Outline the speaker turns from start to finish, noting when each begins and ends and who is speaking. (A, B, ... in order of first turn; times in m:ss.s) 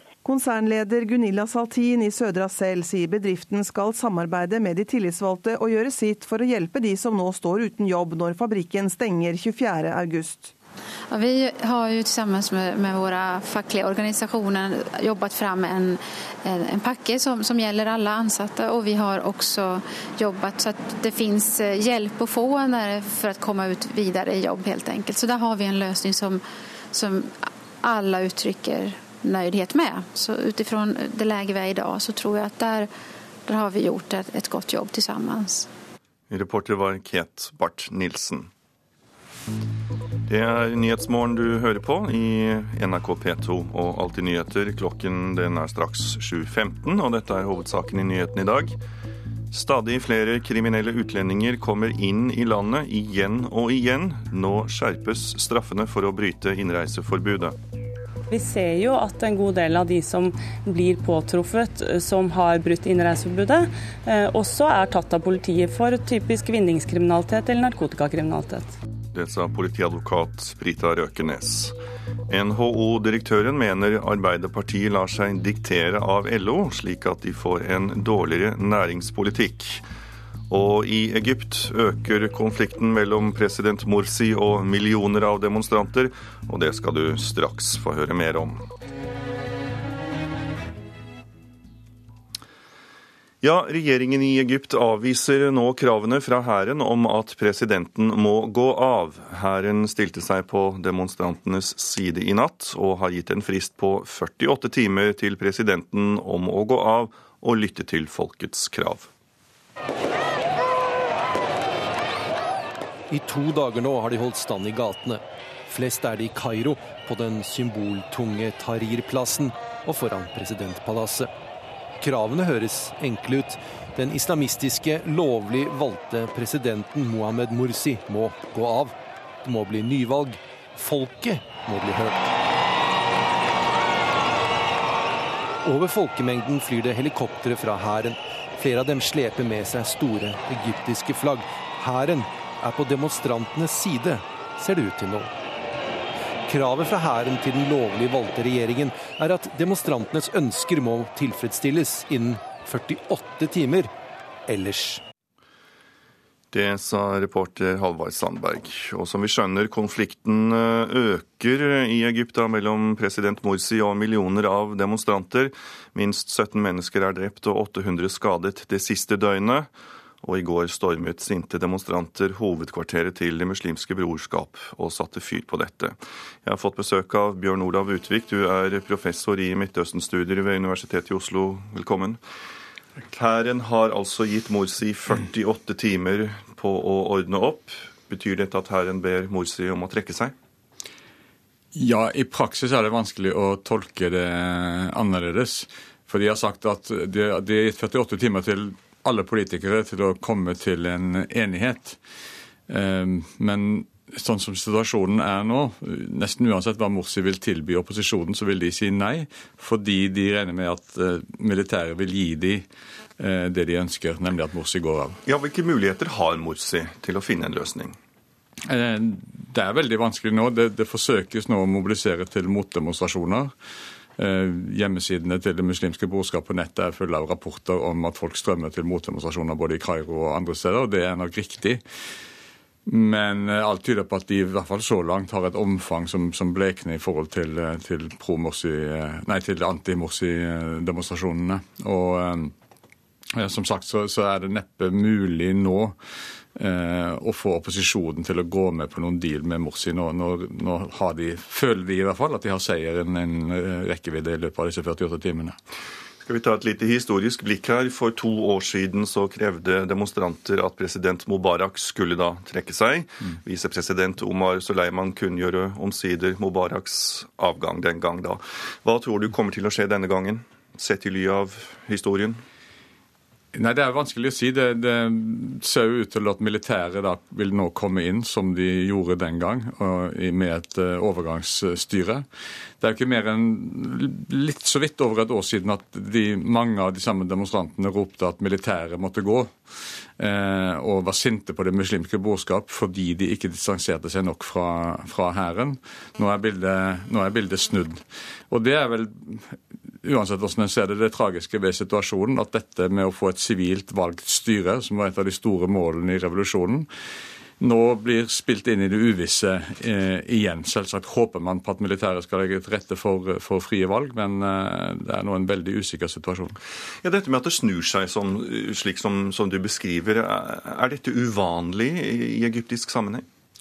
0:00.2-0:10.5 A
0:11.1-0:32.9 B
0:33.4-0:35.7 B
0:36.3-0:38.5 C
0:40.3-0:48.8 C
0:49.5-0:57.6 C
0:58.3-1:08.7 D
1:09.1-1:11.7 C
1:12.3-1:19.8 C
1:20.5-1:28.6 C
1:33.4-1:49.1 C
1:53.1-2:01.3 E
2:02.0-2:12.3 E
2:15.6-2:25.3 E
2:26.4-2:33.9 E
2:34.5-2:35.0 E
2:36.5-2:49.7 C
2:50.2-3:02.2 C
3:03.1-3:10.3 C
3:11.7-3:22.0 F
3:22.7-3:32.6 F
3:33.2-3:35.2 F
3:35.2-3:38.0 C
3:38.7-3:43.5 F
3:44.2-3:51.8 F
3:52.9-4:02.5 F
4:03.4-4:06.0 F
4:06.6-4:15.6 F
4:16.2-4:32.4 C
4:33.5-4:42.2 F
4:42.8-4:49.6 F
4:50.2-5:06.9 F
5:07.6-5:16.6 F
5:17.0-5:23.2 C